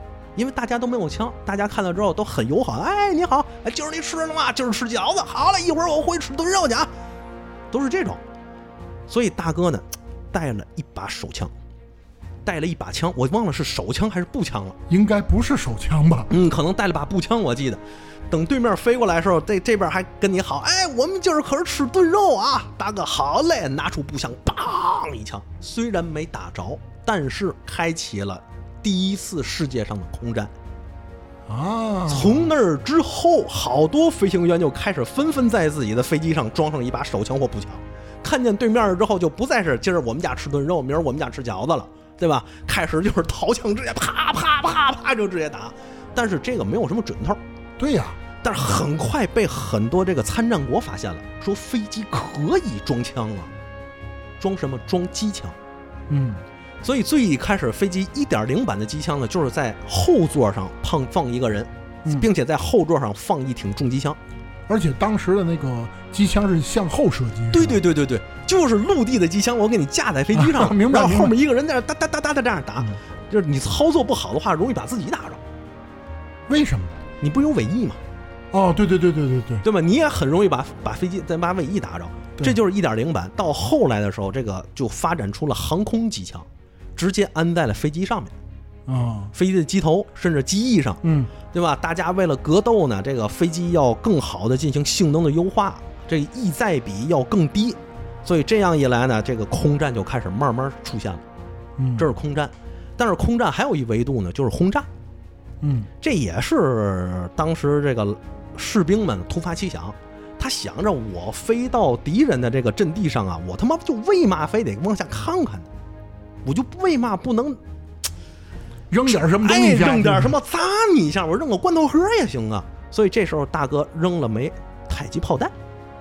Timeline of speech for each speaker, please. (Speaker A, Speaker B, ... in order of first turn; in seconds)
Speaker A: 0.4-6.9, 7.7-8.2, 9.1-11.5, 12.4-14.8, 16.3-30.5, 32.1-47.4, 48.4-53.5, 54.4-55.6, 56.8-64.2, 67.5-75.4, 77.2-78.0, 79.6-88.3, 89.3-101.2, 102.0-104.9, 106.0-115.7, 116.5-117.6, 119.1-125.5
Speaker B: 14.9-16.3, 31.5-32.5, 47.8-48.2, 56.1-56.4, 64.7-67.8, 70.3-71.3, 76.5-77.0, 78.5-79.6, 88.9-89.3, 91.0-91.3, 101.8-102.1, 105.6-105.9, 118.9-120.3